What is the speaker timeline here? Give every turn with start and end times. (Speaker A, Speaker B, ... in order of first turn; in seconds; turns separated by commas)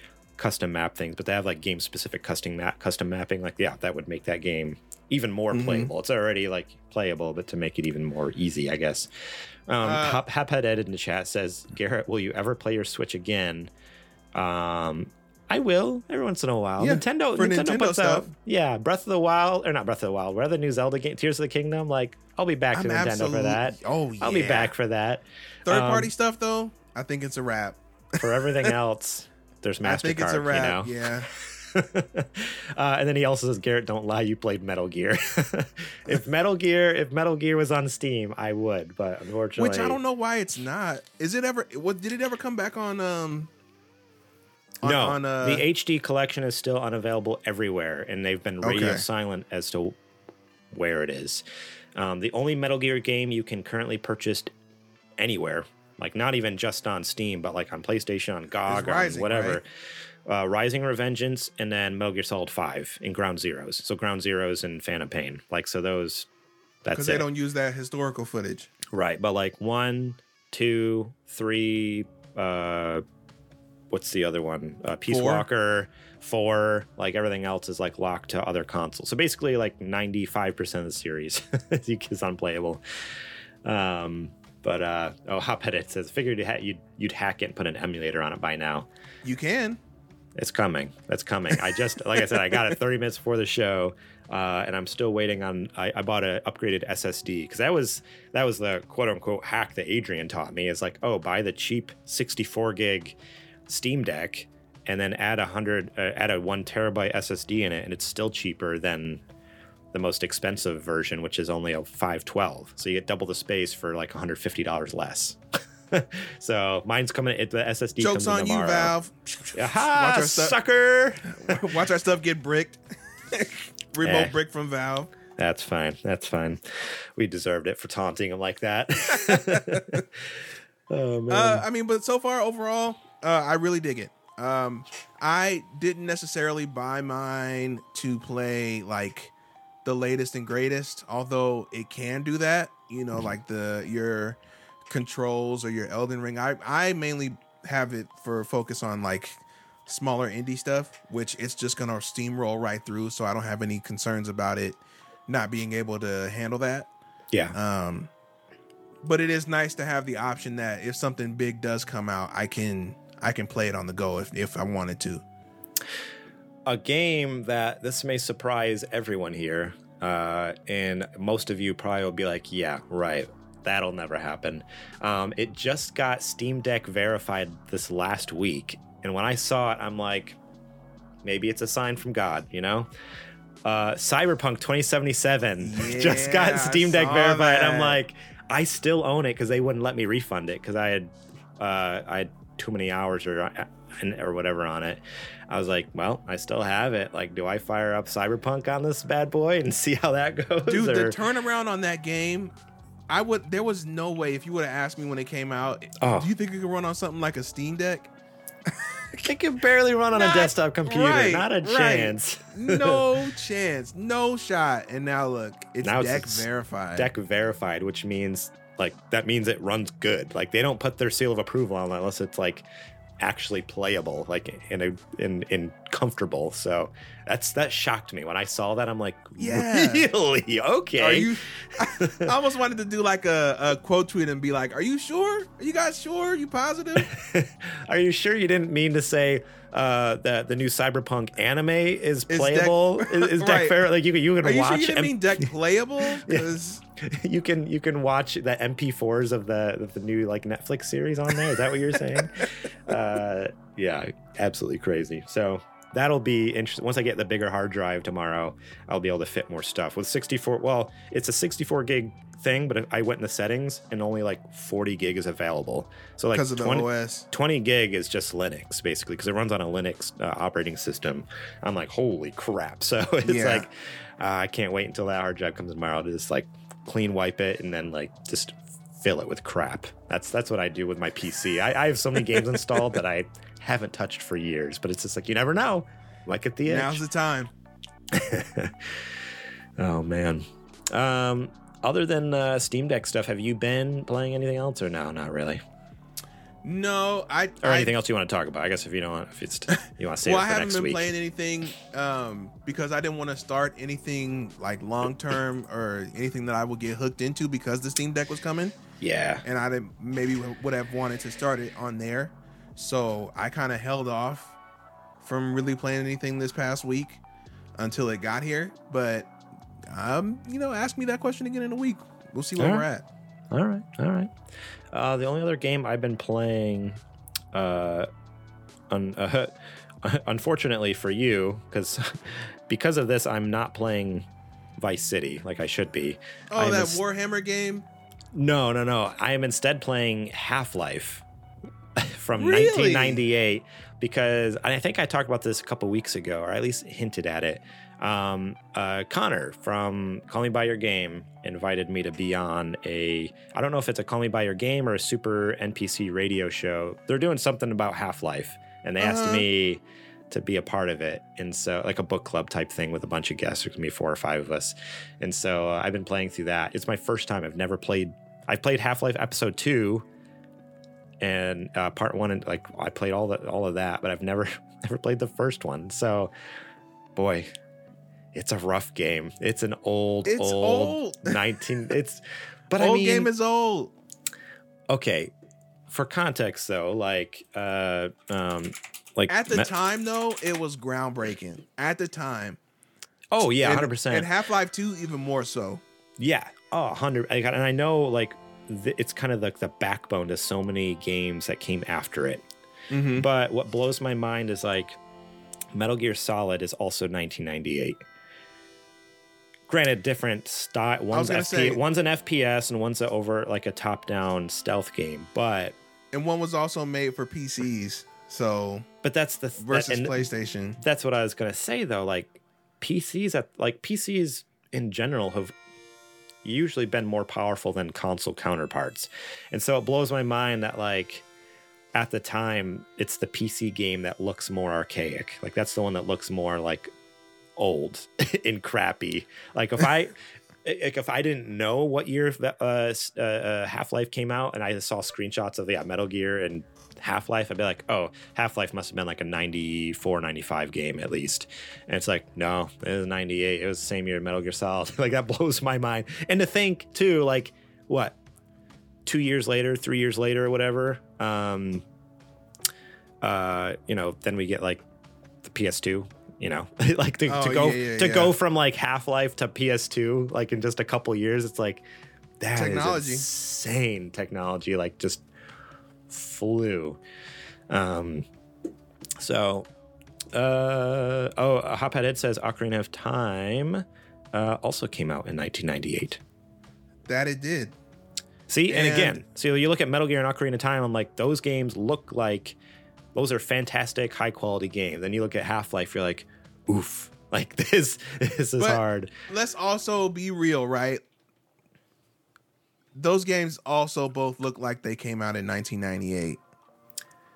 Speaker A: 0.4-9.1, Speaker B: 5.5-5.9, Speaker A: 9.7-13.7, Speaker B: 9.8-10.2, Speaker A: 14.3-26.1, Speaker B: 16.8-18.3, Speaker B: 22.7-24.7, Speaker B: 25.7-28.8, Speaker A: 28.2-40.0, Speaker B: 29.8-31.3, Speaker B: 39.6-43.5, Speaker B: 44.8-45.6, Speaker A: 44.8-50.0, Speaker B: 48.6-49.0, Speaker A: 50.7-51.4, Speaker A: 52.0-54.5, Speaker A: 55.2-59.7, Speaker B: 58.7-59.6, Speaker A: 60.3-66.3, Speaker A: 66.8-67.3, Speaker B: 66.9-68.7, Speaker A: 68.9-73.0, Speaker A: 73.9-82.8, Speaker B: 75.1-75.5, Speaker A: 83.7-88.9, Speaker B: 89.2-89.8, Speaker A: 90.4-103.2, Speaker A: 103.7-109.2, Speaker A: 109.9-115.4, Speaker A: 115.9-119.0, Speaker B: 118.0-120.5, Speaker A: 119.5-121.7, Speaker B: 121.3-125.1, Speaker A: 124.0-124.3, Speaker A: 125.4-131.7, Speaker B: 129.2-130.0, Speaker B: 131.3-139.3, Speaker B: 139.8-156.9, Speaker B: 157.5-158.1, Speaker B: 159.0-165.2, Speaker A: 166.7-180.4, Speaker A: 181.2-182.9, Speaker A: 183.7-201.2, Speaker B: 185.6-188.0, Speaker B: 200.7-202.5, Speaker B: 203.1-208.1, Speaker A: 206.0-206.3, Speaker A: 209.1-213.0, Speaker B: 210.1-217.1, Speaker A: 215.8-222.7, Speaker A: 223.2-232.3, Speaker B: 229.4-230.1, Speaker B: 231.0-237.1, Speaker A: 237.0-245.5, Speaker B: 242.3-243.8, Speaker B: 244.4-246.8, Speaker A: 246.2-287.0, Speaker B: 252.0-252.9, Speaker B: 266.3-267.3, Speaker B: 273.2-273.7, Speaker B: 286.7-287.5, Speaker A: 288.1-289.1, Speaker A: 289.8-295.6, Speaker B: 296.6-297.9, Speaker A: 297.6-301.1, Speaker B: 300.2-308.8, Speaker A: 309.0-309.4, Speaker B: 309.4-314.6, Speaker B: 315.2-317.2, Speaker B: 317.8-319.3, Speaker B: 319.9-323.1, Speaker A: 322.6-322.9, Speaker A: 323.5-324.3, Speaker A: 324.9-327.0, Speaker A: 327.5-328.1, Speaker A: 328.9-334.3, Speaker A: 334.8-337.0, Speaker B: 336.5-337.9, Speaker A: 338.3-341.2, Speaker A: 342.0-370.1, Speaker B: 342.4-343.2, Speaker B: 359.0-359.5, Speaker A: 371.2-376.3, Speaker A: 377.1-377.5, Speaker A: 378.3-383.3, Speaker B: 380.2-381.4, Speaker B: 382.8-383.9, Speaker A: 384.9-385.3, Speaker A: 385.9-389.7, Speaker B: 389.3-392.6, Speaker A: 393.3-394.3, Speaker B: 393.6-395.8, Speaker A: 396.2-402.4, Speaker B: 402.9-403.3, Speaker A: 403.2-405.0, Speaker A: 405.7-408.0, Speaker A: 409.7-415.8, Speaker B: 411.1-411.8, Speaker B: 416.1-418.9, Speaker A: 419.0-420.2, Speaker B: 419.6-420.8, Speaker A: 420.8-425.5, Speaker A: 426.4-431.2, Speaker A: 431.9-436.9, Speaker A: 437.6-458.1, Speaker A: 459.1-461.8, Speaker A: 463.2-464.8, Speaker A: 465.4-471.8, Speaker B: 467.3-468.3, Speaker A: 472.4-475.2, Speaker B: 472.5-473.2, Speaker A: 476.1-477.0, Speaker A: 477.7-478.2, Speaker A: 479.2-479.7, Speaker A: 480.3-486.2, Speaker B: 487.1-487.8, Speaker A: 488.5-492.6, Speaker B: 488.7-489.2, Speaker A: 493.1-499.1, Speaker B: 498.6-501.0, Speaker B: 502.9-506.4